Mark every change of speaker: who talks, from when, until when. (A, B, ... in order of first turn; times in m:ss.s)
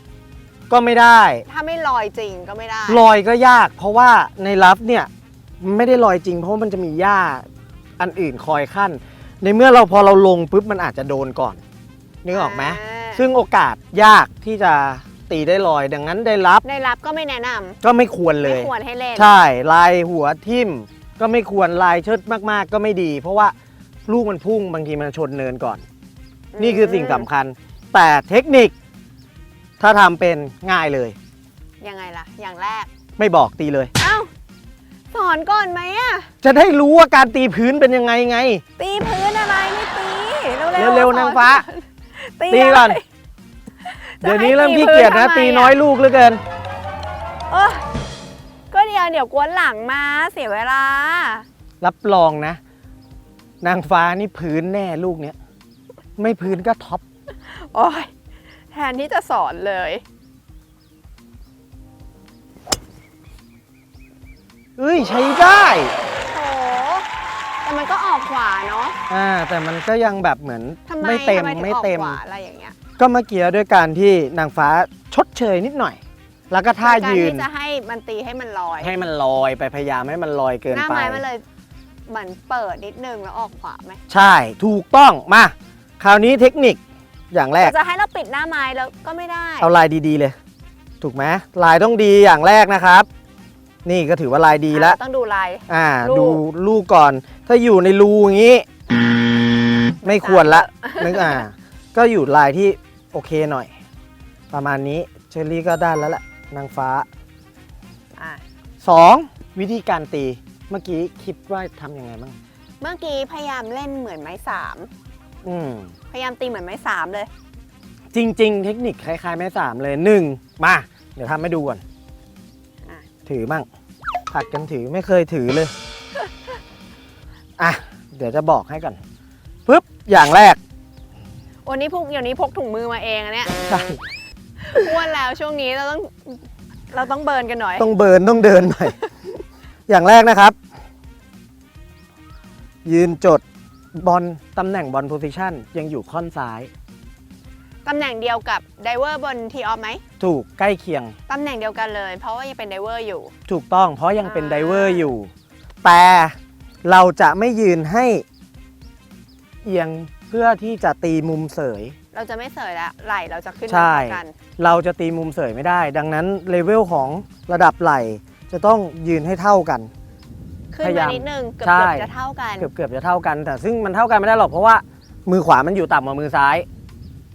0:00.7-0:01.4 A
0:01.5-0:03.0 B
0:02.9-0:07.4 A
0:08.0-0:11.6 A
0:12.2-0:16.6 A
0:12.3-0:13.2 B
0:16.6-0:17.8 B
0:17.8-0:23.5 A
0:18.4-0:19.3 B
0:24.1-0:25.8 A
0:26.5-0:27.2 B
0:26.6-0:28.7 A
0:29.8-0:31.2 A
0:31.8-0:32.9 B
0:33.2-0:33.9 A
0:34.0-0:34.3 B
0:35.1-0:36.3 B
0:36.4-0:38.6 A
0:38.8-0:43.0 B
0:40.8-0:41.6 A
0:42.5-0:43.0 A
0:43.8-0:45.8 B
0:44.2-0:46.4 A
0:47.5-0:47.8 B
0:48.7-0:51.4 B
0:51.8-0:52.6 A
0:53.6-0:55.4 A
0:56.2-0:57.0 A
0:57.5-0:58.1 B
0:58.7-1:00.0 B
1:04.8-1:05.9 A
1:06.3-1:07.1 B
1:07.6-1:09.0 B
1:09.1-1:12.2 A
1:10.9-1:12.7 B
1:13.0-1:17.5 A
1:16.8-1:18.9 B
1:18.8-1:21.2 A
1:20.7-1:21.4 B
1:22.1-1:24.0 B
1:24.1-1:26.8 A
1:27.3-1:27.7 A
1:27.6-1:29.7 B
1:29.6-1:30.4 A
1:31.0-1:33.1 A
1:33.8-1:35.0 A
1:34.7-1:36.4 B
1:35.7-1:38.6 A
1:40.0-1:43.7 A
1:40.0-1:41.4 B
1:44.5-1:47.1 A
1:48.2-1:48.4 B
1:48.8-1:52.4 A
1:52.8-1:54.9 B
1:55.4-1:55.9 A
1:56.1-1:57.3 B
1:58.1-2:01.8 A
2:03.2-2:03.7 A
2:04.3-2:05.7 A
2:07.6-2:09.0 A
2:09.6-2:10.6 A
2:11.6-2:13.6 B
2:13.7-2:14.0 A
2:14.6-2:17.9 B
2:17.8-2:19.0 A
2:19.9-2:20.6 A
2:22.8-2:23.4 A
2:23.9-2:26.7 A
2:27.8-2:30.0 B
2:30.2-2:31.1 A
2:31.3-2:33.3 B
2:33.5-2:35.3 A
2:34.2-2:35.1 B
2:35.8-2:38.2 A
2:39.6-2:42.0 A
2:42.1-2:44.3 B
2:43.7-2:49.9 A
2:50.7-2:52.7 B
2:50.8-2:52.1 A
2:52.6-2:56.6 A